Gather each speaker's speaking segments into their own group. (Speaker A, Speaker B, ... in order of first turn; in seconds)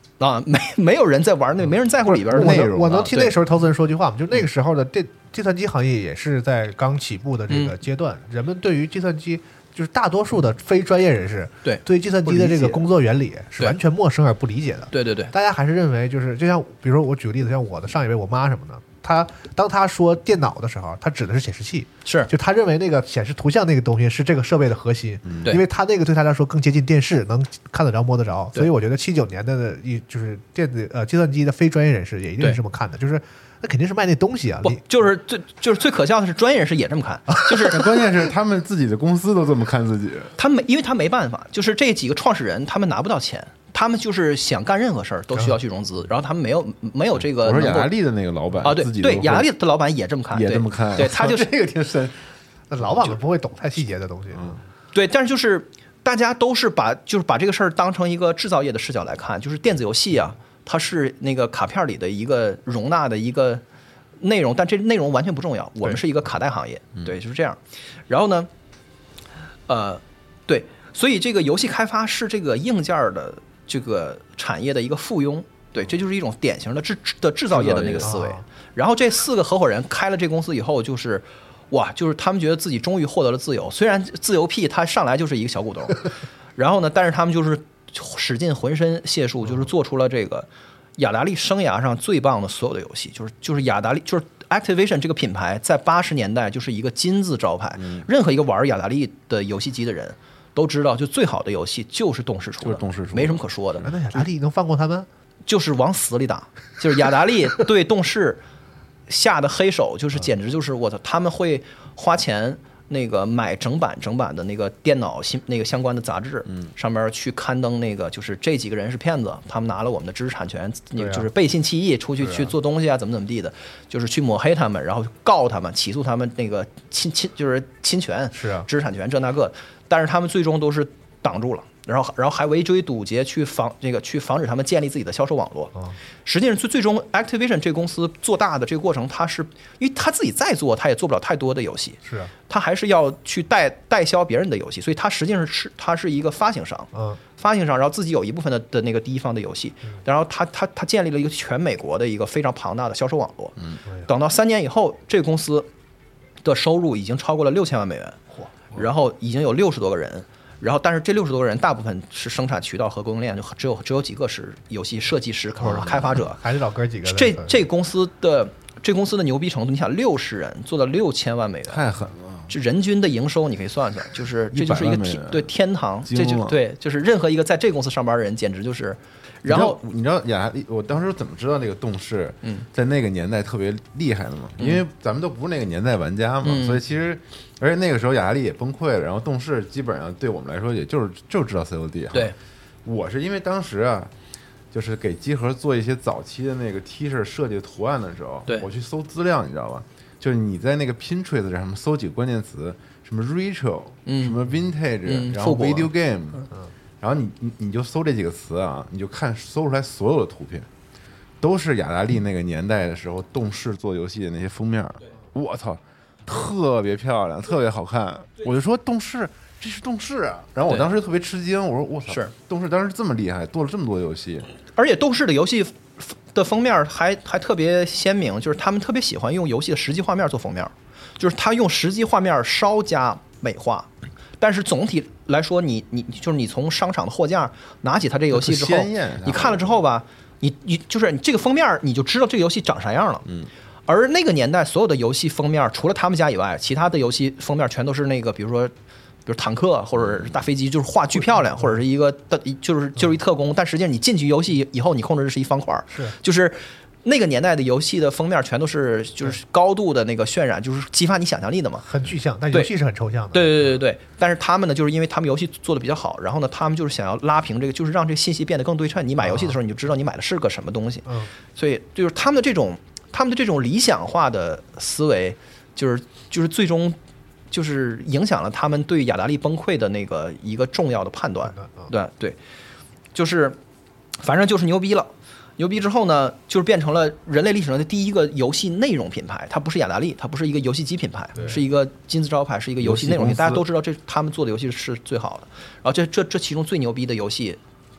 Speaker A: 0.2-3.4, 7.5-7.8, 11.6-12.8, 14.9-15.3, 22.1-22.3, 34.6-37.8, 40.4-47.9, 48.6-51.5, 54.9-63.6, 64.2-68.5, 69.7-103.9, 105.5-108.4, 109.1-155.7, 156.4-158.2, 158.7-166.4, 167.1-171.8, 172.5-179.8, 186.4-186.8, 204.1-204.4, 205.1-205.9, 222.1-222.3, 224.8-243.3, 243.9-248.7, 249.3-261.9, 263.3-277.0, 277.5-282.4, 283.1-283.6, 284.2-297.6
Speaker B: 2.0-3.1, 37.6-40.3, 47.2-49.5, 50.3-52.2, 52.8-53.1, 77.5-78.2, 97.8-98.1, 102.6-103.9, 165.6-166.1, 171.7-172.5, 174.5-175.5, 176.1-176.6, 179.4-194.1, 194.7-206.5, 207.0-210.7, 211.4-224.5, 238.3-239.8, 250.0-250.4, 292.8-293.6
Speaker C: 2.3-34.8, 52.7-54.6, 78.0-78.4, 103.8-105.1, 121.0-121.2, 128.3-128.7, 142.1-142.3, 146.9-147.2, 166.1-167.6, 261.9-263.5, 269.2-269.6, 281.6-281.9